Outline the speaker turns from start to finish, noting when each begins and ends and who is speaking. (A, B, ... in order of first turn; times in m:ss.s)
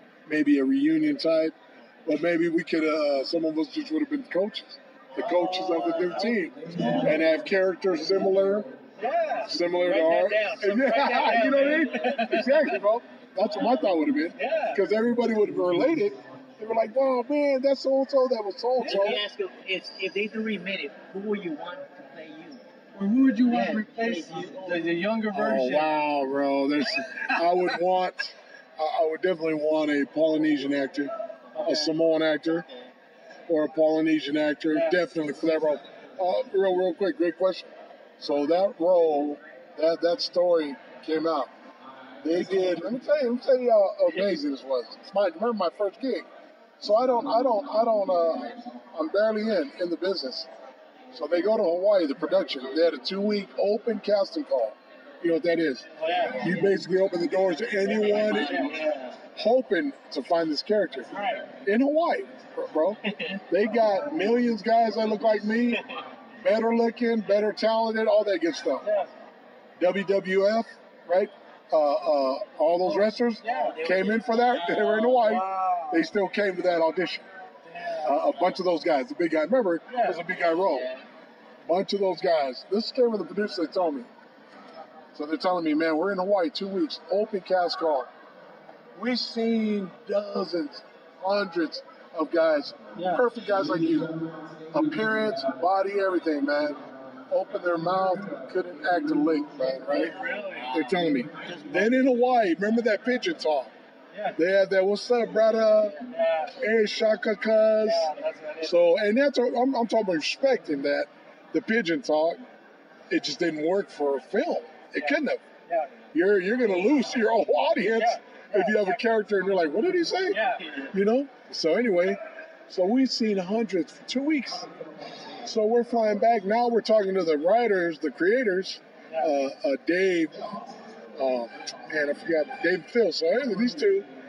0:00.3-0:08.7 A
0:05.2-0:07.2 B
0:09.0-0:12.8 B
0:09.5-0:19.2 A
0:14.4-0:14.8 B
0:18.8-0:19.2 B
0:18.8-0:22.6 C
0:23.0-0:25.9 B
0:23.4-0:24.9 C
0:25.3-0:32.7 A
0:31.5-0:32.0 B
0:33.5-0:41.5 A
0:34.7-0:35.0 B
0:42.2-0:46.3 A
0:46.8-0:50.5 A
0:51.1-0:58.8 A
0:56.0-0:56.5 B
0:57.9-0:59.2 C
0:57.9-0:59.1 B
0:59.4-1:05.8 A
1:01.1-1:01.5 B
1:06.4-1:08.9 A
1:08.8-1:09.1 B
1:09.8-1:17.3 A
1:12.8-1:13.8 B
1:13.4-1:15.1 C
1:14.7-1:16.1 B
1:17.6-1:18.3 B
1:18.0-1:20.9 A
1:19.9-1:20.2 B
1:20.5-1:21.0 C
1:21.6-1:24.1 A
1:25.1-1:28.1 A
1:29.0-1:40.2 A
1:33.0-1:33.2 B
1:39.9-1:40.8 B
1:40.5-1:41.9 C
1:40.7-1:43.7 A
1:44.1-1:44.4 B
1:44.4-1:46.0 A
1:46.1-1:46.6 B
1:46.6-1:48.1 A
1:47.8-1:48.8 B
1:48.6-1:52.4 A
1:53.1-1:55.4 A
1:55.0-1:56.1 B
1:56.1-2:04.7 A
1:57.9-1:59.0 B
2:00.3-2:00.8 B
2:05.4-2:10.6 A
2:11.2-2:14.1 A